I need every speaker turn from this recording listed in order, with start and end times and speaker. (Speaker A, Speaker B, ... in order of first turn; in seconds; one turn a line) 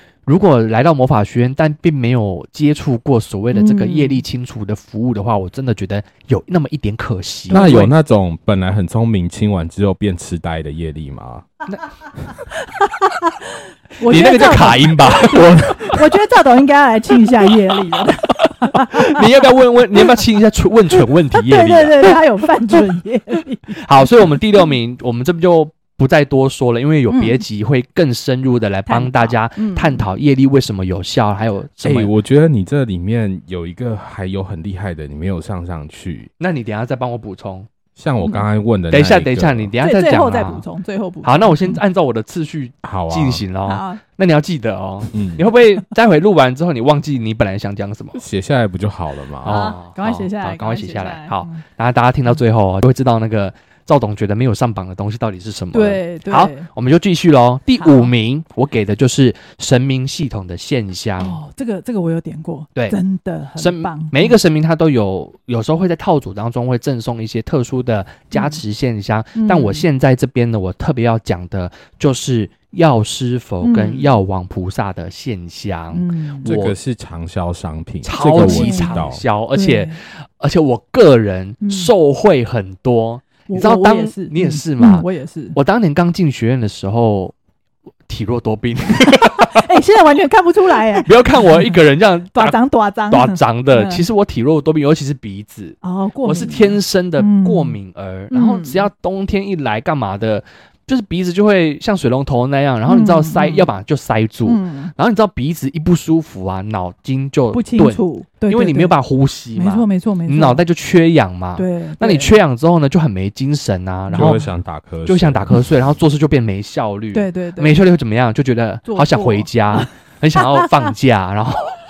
Speaker A: 0.3-7.9
Speaker B: 3.5-4.2
Speaker B: 7.5-7.9
Speaker C: 7.5-11.5
Speaker B: 12.6-19.3
Speaker A: 14.0-15.9
Speaker C: 15.2-15.8
Speaker A: 18.4-22.2
Speaker B: 21.3-24.7
Speaker A: 23.7-32.1
Speaker B: 27.1-27.4
Speaker B: 28.9-30.1
Speaker C: 31.8-36.3
Speaker A: 36.4-37.7
Speaker C: 38.0-39.7
Speaker A: 38.9-40.7
Speaker B: 39.8-41.8
Speaker A: 41.2-48.2
Speaker C: 42.8-43.4
Speaker B: 43.6-44.0
Speaker C: 45.1-45.5
Speaker C: 48.1-49.6
Speaker A: 49.4-61.4
Speaker B: 49.4-51.6
Speaker B: 55.7-56.7
Speaker B: 57.8-58.1
Speaker B: 61.2-64.4
Speaker A: 63.6-76.8
Speaker B: 68.3-68.6
Speaker B: 69.3-69.8
Speaker B: 73.6-74.1
Speaker B: 75.9-76.5
Speaker C: 76.5-79.2
Speaker A: 78.0-87.3
Speaker B: 78.4-80.0
Speaker B: 81.6-81.9
Speaker B: 83.5-85.6
Speaker A: 88.1-89.7
Speaker B: 89.1-91.8
Speaker A: 90.9-92.6
Speaker B: 92.3-94.0
Speaker A: 93.1-114.4
Speaker B: 95.8-97.8
Speaker B: 98.3-98.9
Speaker B: 102.9-103.7
Speaker B: 104.5-104.9
Speaker B: 107.5-109.0
Speaker B: 109.5-110.6
Speaker B: 111.6-112.3
Speaker B: 114.1-114.4
Speaker C: 114.1-115.7
Speaker A: 115.0-121.8
Speaker B: 117.1-117.8
Speaker B: 118.9-120.9